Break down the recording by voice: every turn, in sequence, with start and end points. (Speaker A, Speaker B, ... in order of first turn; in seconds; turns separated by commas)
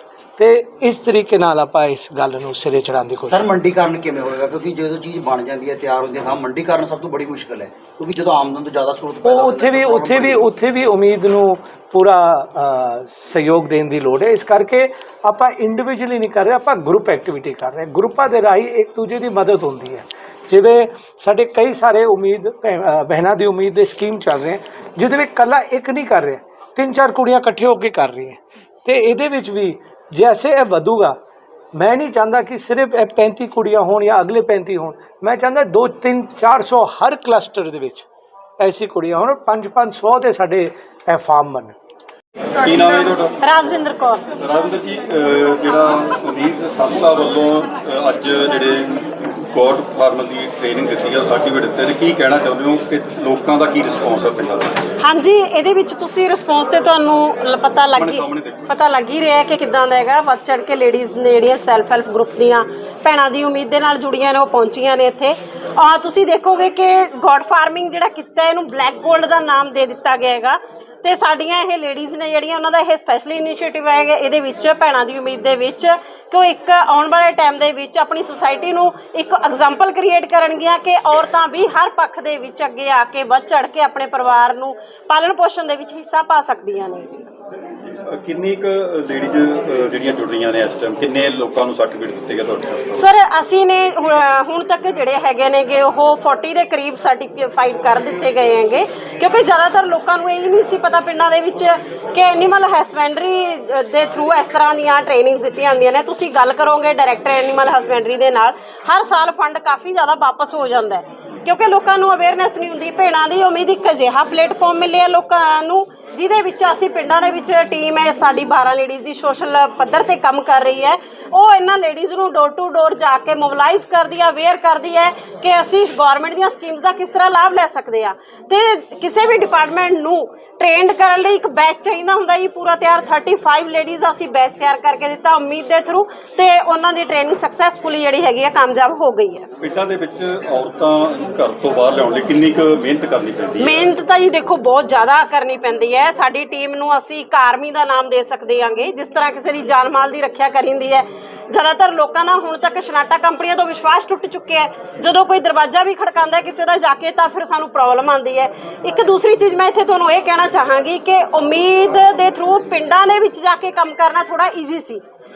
Speaker A: 0.4-3.4, Speaker B: 3.2-10.4, Speaker A: 9.2-31.1, Speaker A: 31.7-38.1, Speaker A: 38.6-41.8, Speaker C: 42.6-43.3, Speaker D: 43.4-44.2, Speaker C: 44.4-54.8, Speaker D: 55.0-87.3, Speaker C: 57.9-58.7, Speaker C: 88.1-93.1, Speaker D: 92.9-139.5, Speaker C: 139.6-143.8, Speaker D: 143.6-165.0